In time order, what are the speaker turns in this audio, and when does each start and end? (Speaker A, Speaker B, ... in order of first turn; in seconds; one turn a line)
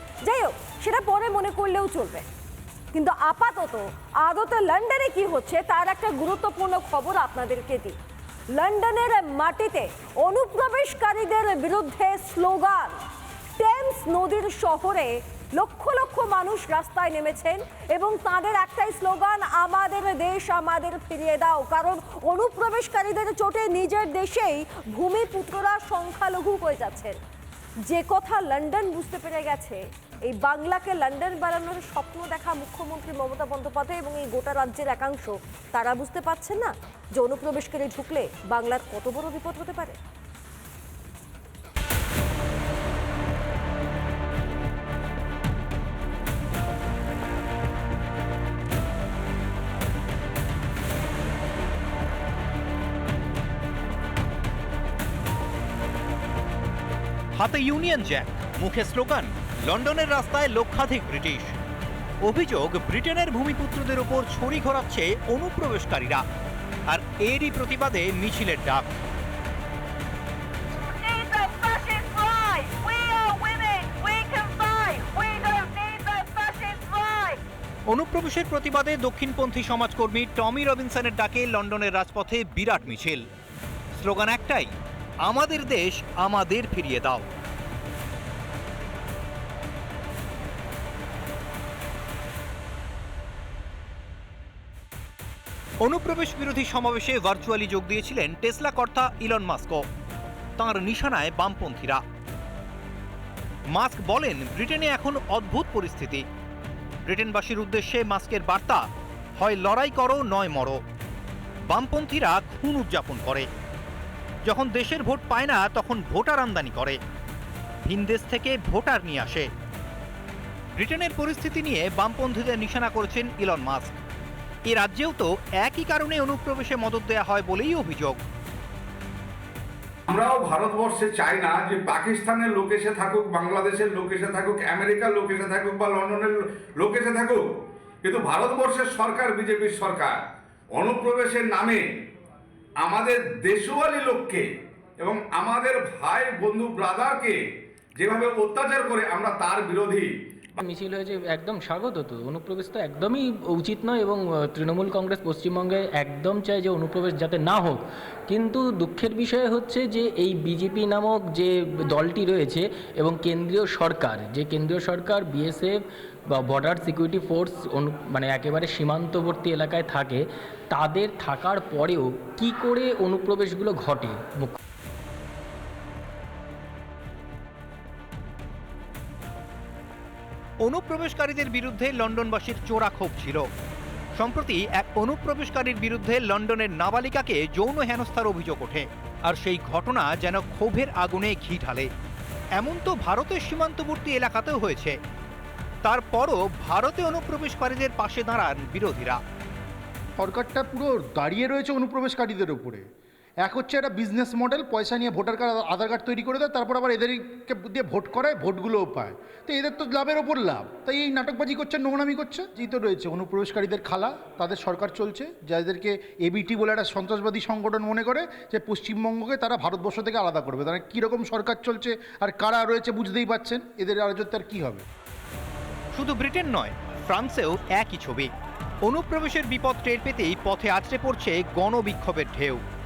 Speaker A: 0.2-2.2
Speaker A: 2.9-8.0
Speaker A: 8.5-13.0
Speaker A: 13.6-27.2
Speaker A: 27.9-40.0
Speaker B: 57.4-61.6
Speaker B: 62.2-66.2
Speaker B: 66.9-69.0
Speaker A: 70.9-77.2
Speaker B: 77.9-83.2
Speaker B: 84.0-84.7
Speaker B: 85.2-87.3
Speaker B: 95.8-99.8
Speaker B: 100.6-102.0
Speaker B: 103.7-106.2
Speaker B: 107.0-108.8
Speaker B: 109.4-110.8
Speaker B: 111.7-113.5
Speaker B: 114.5-117.0
Speaker B: 117.8-119.5
Speaker B: 120.8-124.0
Speaker B: 124.7-128.2
Speaker C: 130.1-137.4
Speaker C: 138.0-140.2
Speaker C: 140.7-141.8
Speaker C: 142.8-144.5
Speaker C: 145.0-147.4
Speaker C: 148.0-150.1
Speaker D: 150.6-165.8
Speaker D: 166.3-174.6
Speaker B: 180.6-183.4
Speaker B: 184.2-191.9
Speaker B: 192.6-194.9
Speaker B: 195.8-199.2
Speaker E: 200.2-202.8
Speaker E: 203.4-224.8
Speaker B: 225.9-228.3
Speaker B: 228.8-232.6